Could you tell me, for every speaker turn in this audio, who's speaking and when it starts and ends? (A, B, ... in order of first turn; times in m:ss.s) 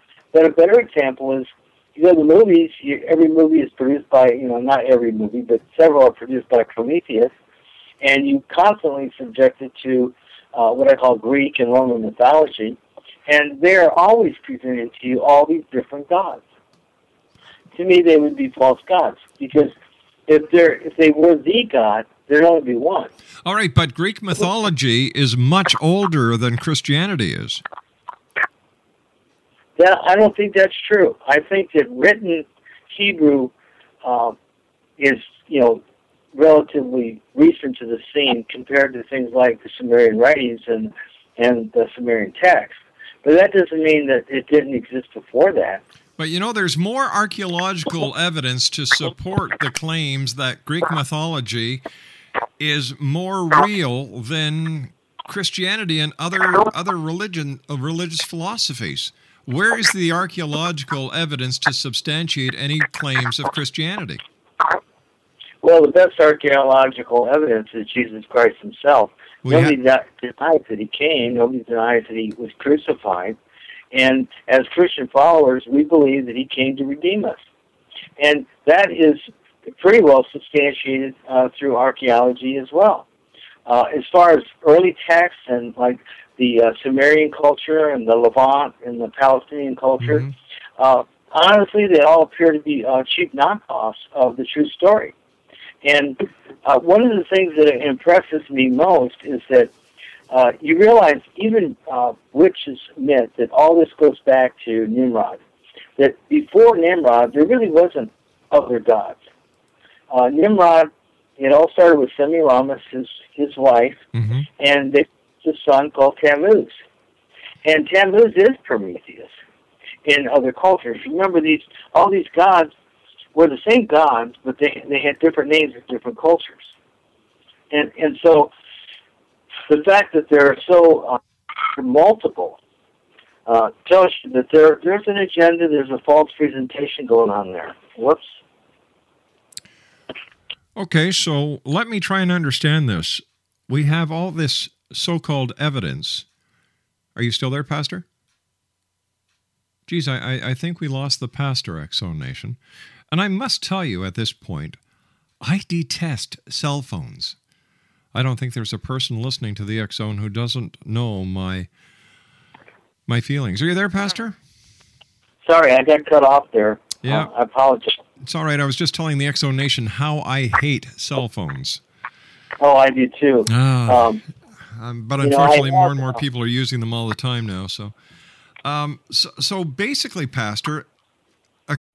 0:00.3-0:07.3 A
0:08.0-0:16.4 A
0:17.7-0:19.7 A
0:20.3-0:23.1 A
0:23.4-0:27.6 B
0:29.8-0:33.5 A
0:34.0-0:34.3 A
0:35.0-0:35.8 A
0:36.3-0:45.8 A
0:46.2-0:51.8 B
0:52.6-1:04.2 B
1:05.6-1:13.4 A
1:09.4-1:09.7 B
1:13.9-1:17.4 A
1:18.2-1:23.0 A
1:23.6-1:30.2 A
1:30.0-1:30.3 B
1:30.8-1:35.1 A
1:35.8-1:39.7 A
1:40.3-1:45.4 A
1:46.0-1:49.2 A
1:50.1-1:54.0 A
1:54.1-1:54.4 B
1:54.6-1:56.7 A
1:57.6-1:59.3 A
2:00.0-2:02.7 A
2:03.3-2:06.7 A
2:07.7-2:08.5 A
2:09.7-2:11.2 A
2:11.7-2:12.6 A
2:13.5-2:18.4 A
2:20.8-2:26.2 B
2:27.2-2:28.0 B
2:29.9-2:32.6 B
2:33.1-2:34.8 B
2:35.4-2:37.4 B
2:38.1-2:41.7 B
2:43.1-2:44.4 B
2:45.4-2:47.9 A
2:47.0-2:47.3 B
2:48.2-2:51.8 B
2:52.6-2:54.2 A
2:53.5-2:57.9 B
2:55.2-2:56.2 A
2:58.6-3:00.9 B